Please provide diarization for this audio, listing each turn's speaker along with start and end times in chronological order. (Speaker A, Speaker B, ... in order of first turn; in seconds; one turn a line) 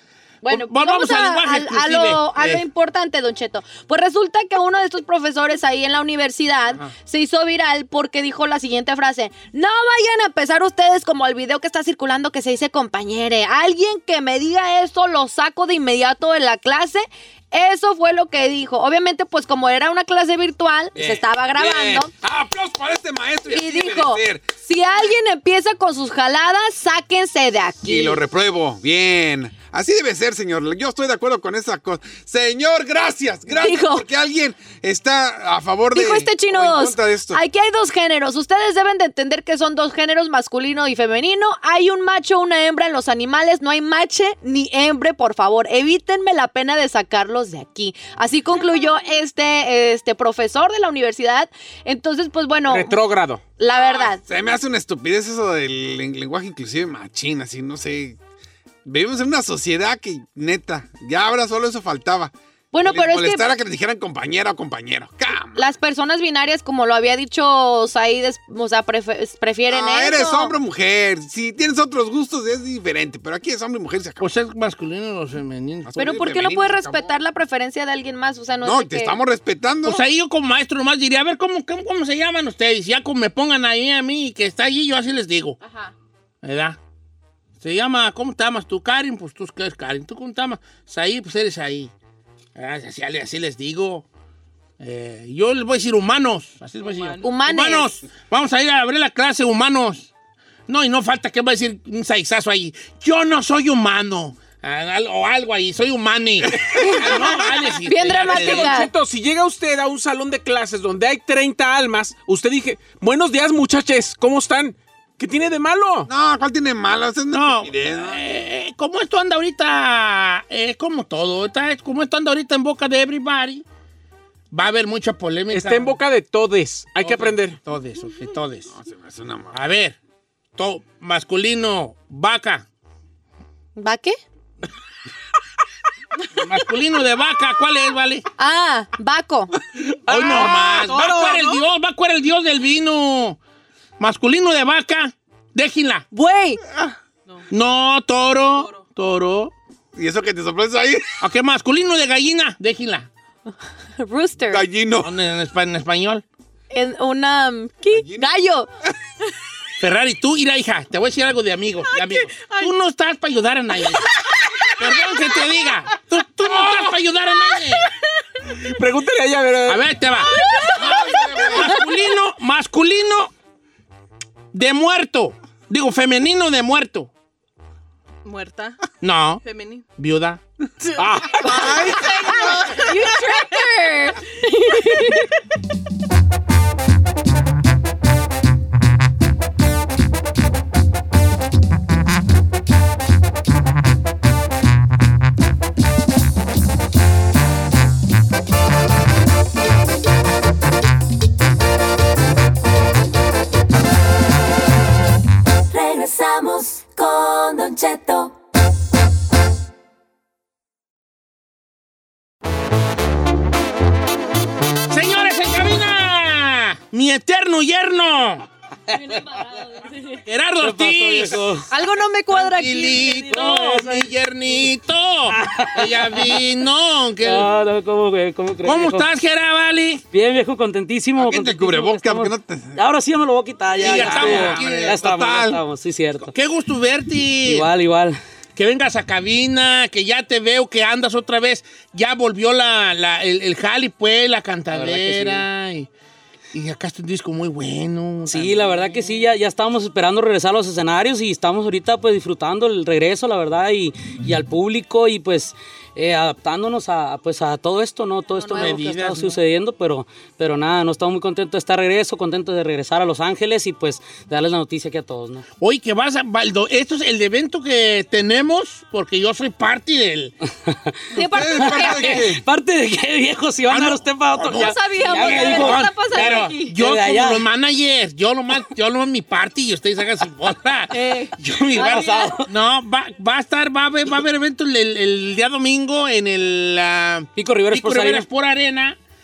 Speaker A: 0.4-22.1
Speaker B: 0.5-2.6
Speaker C: 21.0-24.5
Speaker A: 23.5-28.2
Speaker C: 27.8-37.4
Speaker A: 33.5-34.1
Speaker A: 35.9-53.0
Speaker D: 52.7-53.4
Speaker A: 53.6-54.2
Speaker C: 53.7-58.2
Speaker C: 58.9-65.7
Speaker A: 62.7-63.5
Speaker A: 65.6-70.5
Speaker C: 69.7-74.3
Speaker B: 74.2-76.2
Speaker C: 75.9-77.2
Speaker A: 76.0-79.2
Speaker C: 78.6-80.0
Speaker B: 79.8-85.6
Speaker A: 85.6-85.9
Speaker B: 86.4-86.8
Speaker B: 87.6-91.9
Speaker B: 92.5-94.1
Speaker B: 94.8-100.1
Speaker E: 96.8-97.4
Speaker A: 97.2-97.9
Speaker B: 100.7-108.8
Speaker C: 106.5-107.3
Speaker A: 106.9-107.2
Speaker A: 107.8-108.9
Speaker D: 108.1-116.1
Speaker C: 116.1-118.2
Speaker B: 117.3-123.7
Speaker B: 124.5-126.0
Speaker D: 125.5-127.6
Speaker B: 127.0-128.7
Speaker C: 128.7-129.6
Speaker B: 129.5-130.0
Speaker B: 130.6-132.7
Speaker A: 133.8-134.2
Speaker B: 136.4-138.3
Speaker A: 138.4-139.5
Speaker B: 140.1-143.4
Speaker D: 140.1-141.6
Speaker E: 140.3-141.3
Speaker B: 144.0-146.1
Speaker A: 146.1-146.6
Speaker B: 147.5-149.5
Speaker E: 148.5-148.8
Speaker C: 149.9-151.2
Speaker B: 151.2-153.1
Speaker A: 154.0-154.7
Speaker C: 154.5-155.1
Speaker B: 155.0-156.2
Speaker A: 156.7-158.7
Speaker C: 157.9-158.4
Speaker B: 159.8-164.1
Speaker E: 161.9-162.7
Speaker B: 164.8-167.9
Speaker D: 168.6-169.9
Speaker B: 169.7-170.4
Speaker A: 170.6-171.0
Speaker C: 170.7-171.8
Speaker B: 171.4-173.3
Speaker B: 174.5-177.1
Speaker E: 178.2-178.8
Speaker B: 179.0-179.4
Speaker E: 179.4-179.9
Speaker B: 180.0-180.4
Speaker E: 181.2-182.3
Speaker C: 181.4-182.8
Speaker A: 181.5-185.3
Speaker E: 182.9-183.5
Speaker F: 205.7-208.4
Speaker B: 214.9-218.5
Speaker B: 220.3-221.5
Speaker G: 220.6-221.7
Speaker A: 221.7-223.5
Speaker B: 222.3-227.5
Speaker G: 223.3-224.1
Speaker G: 225.3-226.4
Speaker G: 227.2-229.1
Speaker B: 228.6-230.0
Speaker G: 230.1-236.3
Speaker C: 231.2-232.8
Speaker B: 233.8-235.0
Speaker C: 233.8-235.6
Speaker B: 236.2-237.7
Speaker G: 237.4-238.2
Speaker B: 238.6-245.9
Speaker G: 244.7-245.5
Speaker B: 246.5-248.8
Speaker G: 248.3-265.4
Speaker A: 258.4-258.8
Speaker B: 258.5-259.4
Speaker B: 265.6-270.3
Speaker G: 270.7-270.9
Speaker A: 271.1-272.2
Speaker C: 271.1-272.4
Speaker G: 271.6-277.4
Speaker B: 273.7-289.0
Speaker A: 274.5-276.7
Speaker A: 280.9-281.3
Speaker G: 281.8-282.5
Speaker G: 287.4-288.3